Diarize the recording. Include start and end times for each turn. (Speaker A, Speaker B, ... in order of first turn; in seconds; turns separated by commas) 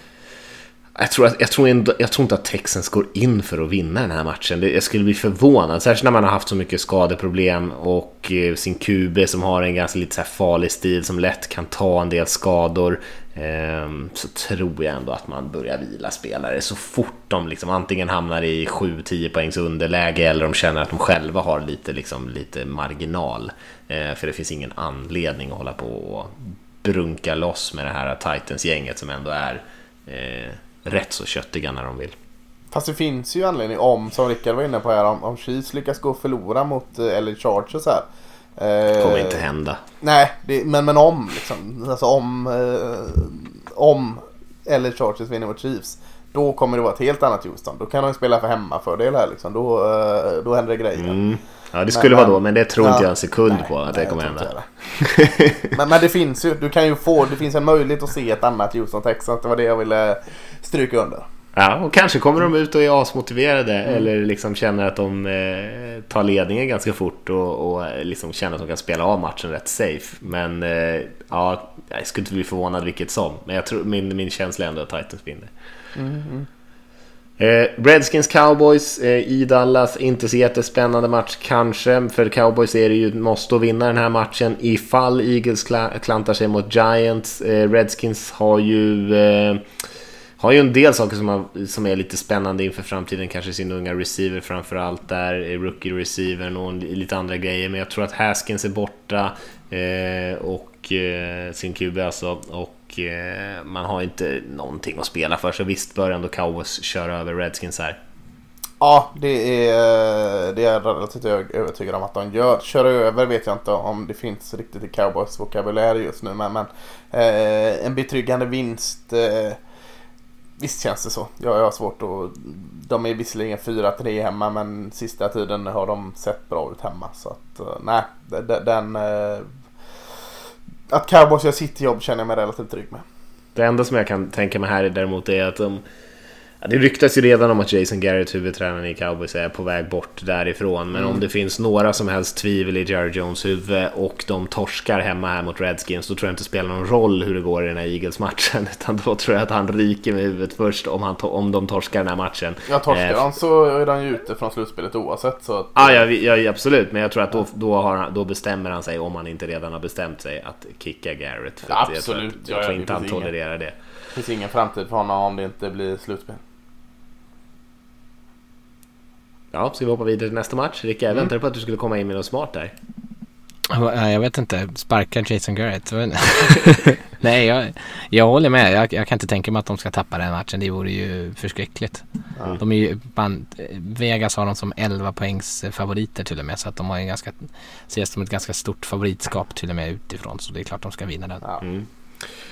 Speaker A: 1.0-32.1, Speaker B: 32.7-38.1, Speaker B: 38.6-39.4, Speaker A: 39.0-39.8, Speaker B: 40.0-51.2, Speaker A: 51.0-55.8, Speaker B: 51.9-54.7, Speaker B: 55.7-61.3, Speaker A: 61.6-75.5, Speaker B: 76.0-76.5, Speaker A: 77.4-89.6, Speaker A: 90.4-108.0, Speaker B: 108.8-119.6, Speaker B: 120.6-129.5, Speaker B: 130.9-133.0, Speaker A: 133.6-135.8, Speaker A: 136.6-153.3, Speaker B: 152.7-156.1, Speaker A: 155.8-163.8, Speaker B: 161.7-163.3, Speaker B: 164.2-166.4, Speaker A: 169.5-172.7, Speaker C: 173.7-182.0, Speaker C: 182.6-191.4, Speaker A: 191.6-191.9